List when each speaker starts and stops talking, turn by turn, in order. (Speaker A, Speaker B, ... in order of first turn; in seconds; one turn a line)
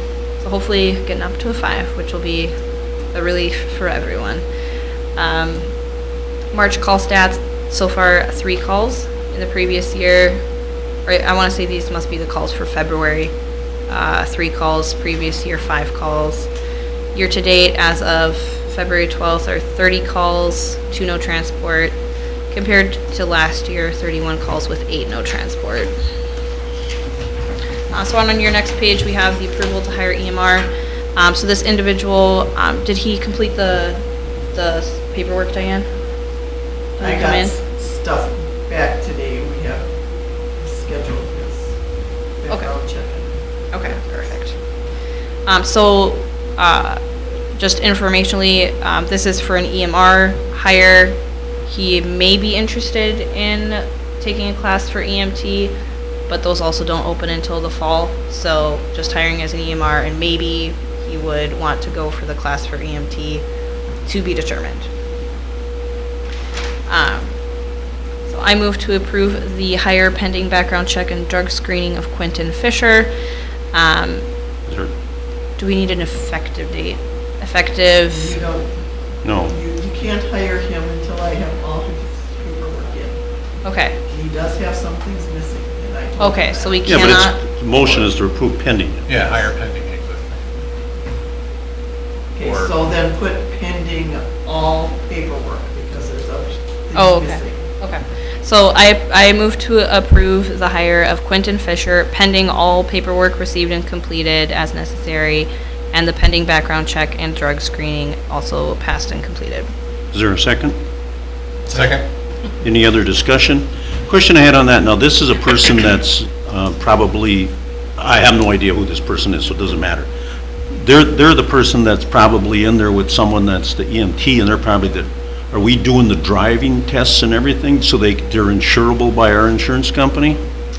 Speaker A: 0.4-2.5
Speaker A: 3.1-4.4
Speaker A: 5.2-5.7
Speaker A: 6.5-10.4
Speaker A: 11.1-13.3
Speaker A: 13.9-16.5
Speaker A: 17.1-21.9
Speaker A: 22.5-25.9
Speaker A: 27.9-34.0
Speaker A: 34.5-35.9
Speaker A: 37.0-37.6
Speaker B: 37.0-39.9
Speaker B: 40.6-41.7
Speaker B: 42.4-43.3
Speaker A: 43.7-44.6
Speaker A: 45.5-55.8
Speaker A: 56.3-63.5
Speaker A: 64.1-64.9
Speaker A: 66.9-67.3
Speaker A: 68.3-73.1
Speaker A: 73.7-74.2
Speaker C: 74.7-74.9
Speaker A: 75.6-78.4
Speaker B: 78.1-78.7
Speaker C: 79.2-79.6
Speaker B: 79.5-83.2
Speaker A: 83.6-84.0
Speaker B: 84.1-87.0
Speaker A: 86.2-87.4
Speaker C: 86.8-89.2
Speaker D: 89.1-90.5
Speaker B: 92.3-97.6
Speaker D: 92.4-92.8
Speaker A: 96.9-109.7
Speaker C: 110.1-110.8
Speaker D: 111.7-112.0
Speaker C: 112.6-120.1
Speaker C: 120.7-130.4